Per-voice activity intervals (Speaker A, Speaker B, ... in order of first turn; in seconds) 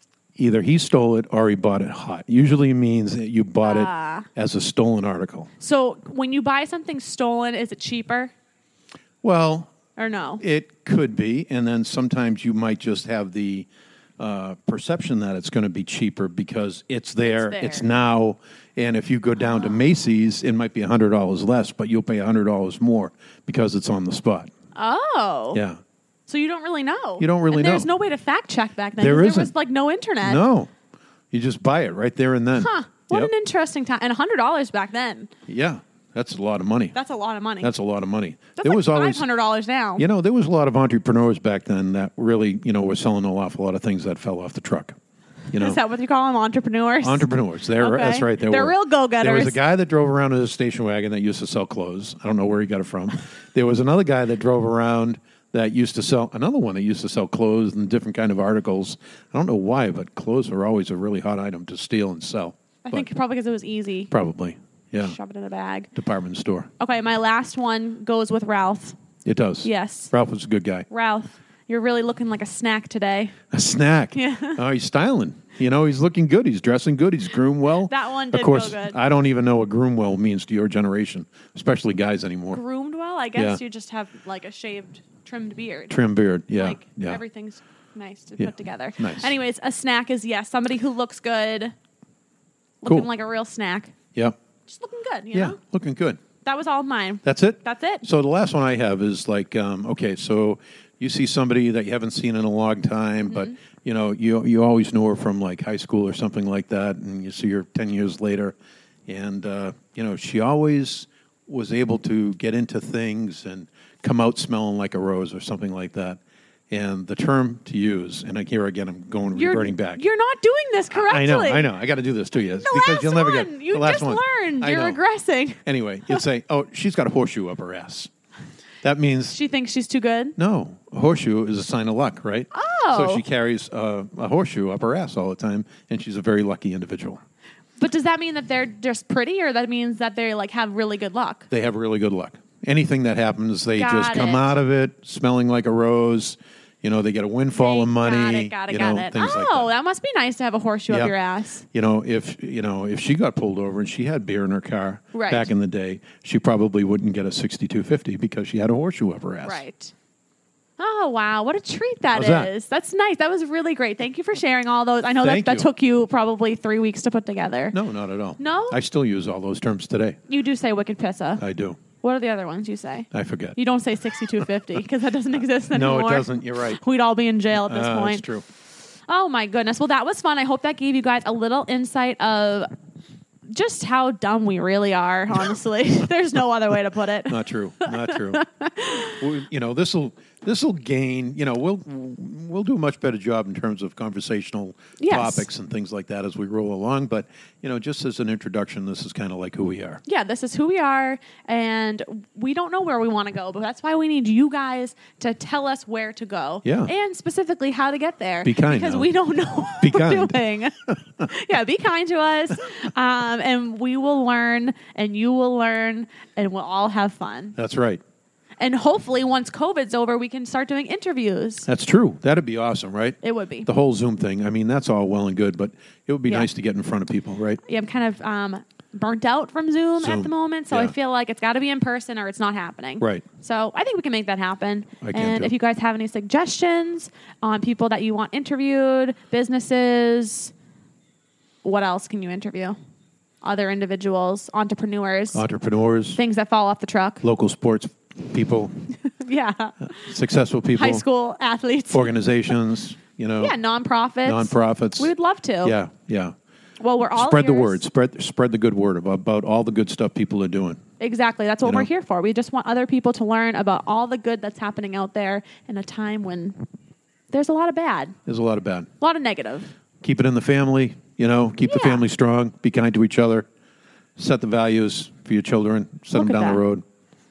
Speaker A: 0.4-5.5, 9.2-9.7, 10.4-13.7, 14.2-24.5, 25.5-25.8, 27.2-27.9, 29.0-29.5, 30.2-30.7, 31.3-33.3, 35.5-36.9, 37.6-39.2, 40.0-45.0, 45.5-45.8, 47.0-63.1, 64.1-65.2, 65.9-66.7, 69.2-70.9, 73.5-82.6, 83.3-83.6, 85.9-87.2, 88.4-89.3, 95.3-96.2, 97.2-108.5, 109.1-120.0, 120.9-125.0, 125.6-128.1, 128.8-129.4, 130.4-137.2, 141.5-149.7, 151.7-159.6, 162.1-162.5, 165.2-165.7, 167.7-170.2, 171.4-171.8, 173.1-173.6, 175.7-176.8, 177.6-178.4, 187.3-188.4, 189.1-200.0, 206.6-206.9, 208.4-209.1, 209.8-211.3, 217.6-218.0, 221.7-227.6, 230.0-230.9, 235.0-235.5, 245.3-246.2, 247.2-248.8, 249.8-251.0, 251.9-253.5, 254.2-255.1, 255.6-256.3, 257.1-260.8, 261.6-261.9, 268.3-268.9, 270.0-273.5, 274.2-276.8
Speaker B: 3.6-4.3, 5.6-8.3, 10.0-10.4, 17.2-17.9, 19.4-19.8, 24.8-25.6, 26.3-30.4, 32.6-35.3, 36.9-37.7, 38.6-40.0, 45.5-49.6, 62.9-64.1, 65.0-65.9, 66.8-69.0, 69.6-70.1, 70.9-73.4, 74.1-74.6, 77.8-79.0, 82.5-85.9, 86.5-91.7, 92.8-93.9, 94.7-95.6, 96.4-98.0, 103.3-103.5, 119.3-121.7, 122.3-126.2, 129.3-130.3, 132.5-133.2, 137.8-141.5, 143.8-144.6, 147.6-151.6, 155.1-155.5, 159.4-159.9, 160.8-167.8, 168.4-168.8, 170.3-171.4, 172.0-178.2, 179.1-182.7, 183.5-189.2, 195.0-195.5, 200.0-217.6, 218.6-221.7, 223.2-223.7, 227.6-240.5, 241.6-242.8, 243.4-245.4, 246.1-247.2, 249.0-250.1, 250.7-252.5, 253.3-255.8, 256.8-257.8, 261.0-266.6, 267.3-268.1, 269.0-269.7, 271.6-272.0, 276.1-276.6